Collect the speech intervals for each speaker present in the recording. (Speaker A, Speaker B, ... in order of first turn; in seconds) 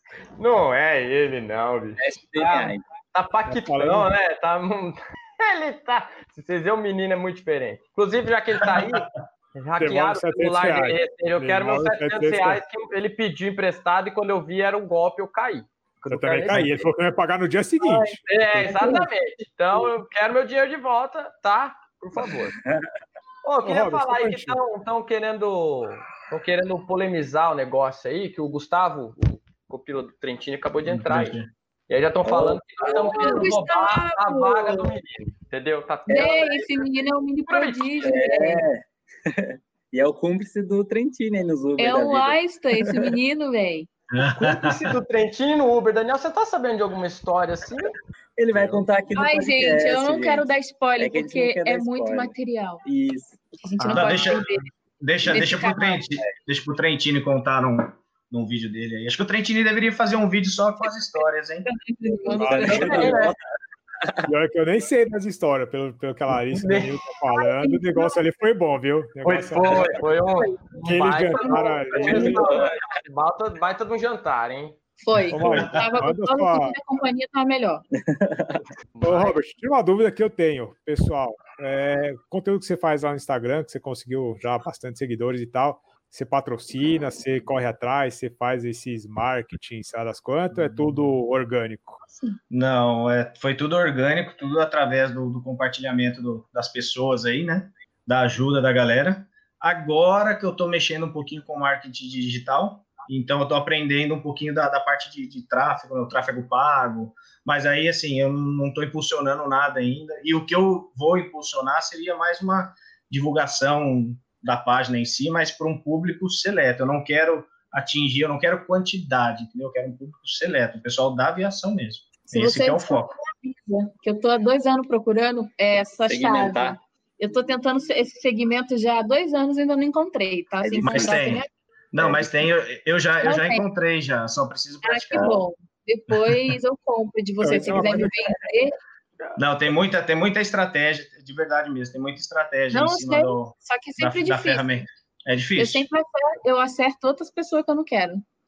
Speaker A: 0.4-16.8, 18.3-22.6, 23.4-36.8, 37.5-37.9, 44.2-48.0, 62.8-63.3, 66.6-66.9, 69.2-74.8, 79.0-79.4
Speaker B: 2.0-2.8, 32.2-33.5, 38.0-43.1, 48.4-52.3, 52.9-54.3, 62.3-63.4, 72.0-72.8, 78.0-78.6, 126.1-126.8, 130.6-131.3, 132.0-132.3
Speaker C: 3.5-4.1, 9.8-12.6, 16.1-19.1, 23.6-24.6, 62.4-63.3, 64.3-70.0, 70.8-72.4, 75.3-76.8, 79.0-92.0, 137.4-138.2
Speaker D: 18.6-19.1, 32.9-35.0, 36.1-38.6, 41.8-43.9, 49.1-52.8, 53.6-54.7, 55.3-56.0, 61.7-63.3, 67.3-68.2, 70.4-70.8, 71.3-72.3, 75.0-77.8, 92.1-92.4, 122.3-131.5, 133.2-133.7, 134.8-138.8, 142.7-144.7, 145.6-148.2
Speaker E: 30.9-31.5, 44.1-44.9, 53.8-61.7, 75.4-75.9, 90.5-91.0, 92.5-123.1, 130.8-135.4, 136.1-136.5, 139.4-145.9